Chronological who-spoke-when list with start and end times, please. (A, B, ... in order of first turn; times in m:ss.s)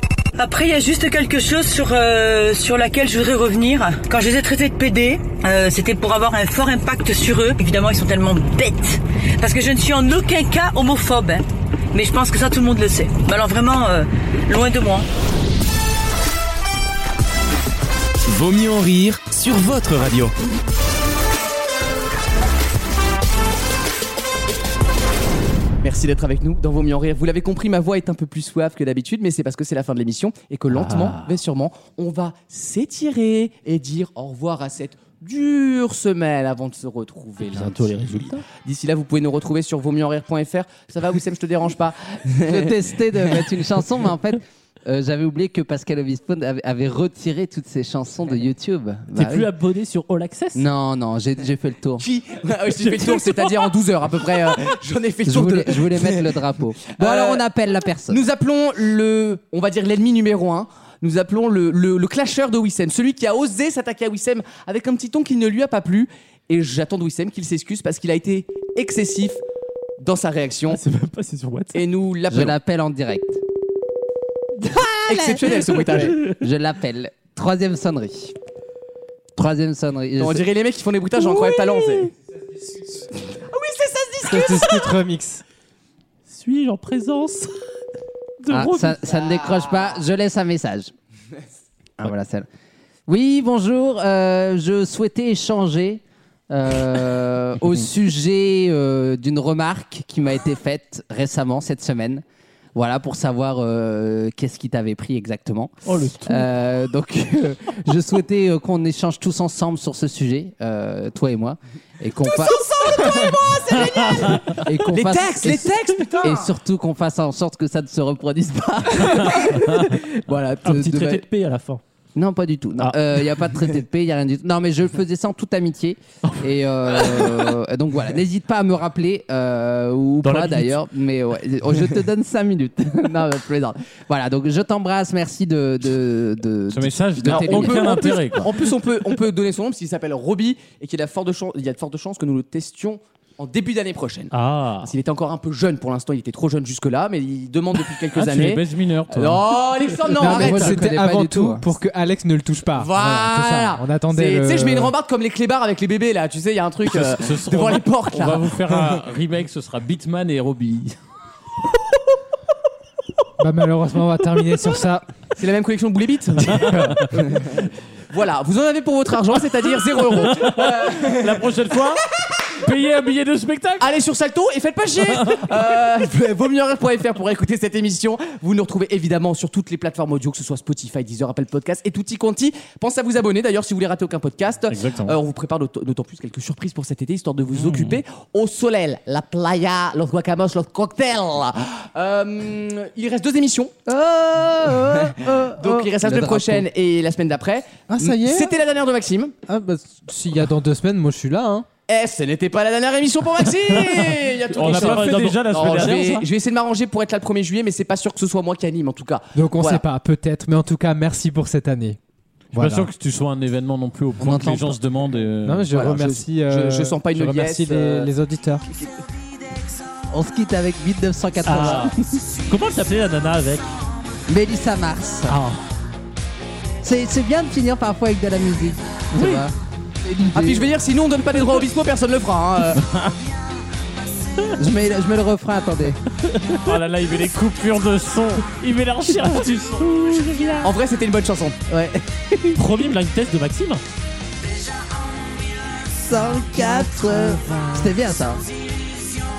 0:00.4-0:15.1 A
0:18.2-0:20.3 B
0:25.8-0:42.8 C
0:30.7-0:31.3 D
0:37.5-0:38.4 D
0:42.5-0:49.5 E
0:49.2-0:50.7 D
0:50.6-0:52.1 E
0:52.0-0:56.3 C
0:52.8-0:53.5 E
0:55.3-0:58.2 E
0:56.9-0:57.4 C
0:58.1-1:09.4 C
1:10.0-1:10.8 C
1:10.7-1:11.8 D
1:11.7-1:12.6 C
1:12.3-1:13.4 E
1:14.6-1:18.4 E
1:15.1-1:16.2 C
1:16.0-1:16.4 D
1:19.4-1:20.4 E
1:20.2-1:22.1 C
1:21.3-1:21.7 D
1:23.5-1:24.9 C
1:24.2-1:25.4 F
1:26.3-1:27.5 D
1:28.4-1:29.0 D
1:28.5-1:30.9 E
1:32.0-1:32.5 E
1:33.1-1:42.2 E
1:42.8-2:01.2 E
1:45.8-1:46.5 D
1:52.3-1:56.5 C
2:00.6-2:01.8 D
2:02.2-2:18.2 E
2:07.1-2:07.3 D
2:10.2-2:10.8 D
2:16.7-2:18.5 G
2:17.3-2:30.8 C
2:24.3-2:24.9 D
2:28.1-2:29.6 G
2:30.1-2:34.9 F
2:30.2-2:31.7 E
2:32.7-2:38.9 C
2:36.9-2:41.0 G
2:43.4-2:45.1 F
2:45.4-2:51.8 C
2:46.4-2:47.1 F
2:50.1-2:53.9 G
2:53.8-3:13.7 C
2:55.2-2:55.4 G
3:04.7-3:05.2 G
3:13.9-3:16.7 E
3:15.2-3:19.4 C
3:17.9-3:18.5 E
3:18.0-3:18.4 F
3:19.5-3:21.6 F
3:21.9-3:29.8 C
3:23.8-3:26.2 G
3:24.6-3:26.1 D
3:29.4-3:32.0 F
3:32.5-3:35.7 G
3:32.5-3:32.9 F
3:34.2-3:34.8 E
3:35.4-3:38.7 F
3:35.7-3:38.1 C
3:40.1-3:42.2 E
3:41.4-3:42.0 D
3:42.5-3:43.7 D
3:44.3-3:45.4 E
3:45.3-3:45.6 D
3:46.8-3:50.7 E
3:49.2-3:49.4 D
3:50.3-3:52.8 C
3:52.8-3:53.1 G
3:54.6-3:56.0 E
3:56.6-4:00.7 G
4:00.6-4:01.6 C
4:01.7-4:02.6 E
4:02.5-4:03.8 D
4:05.9-4:08.4 E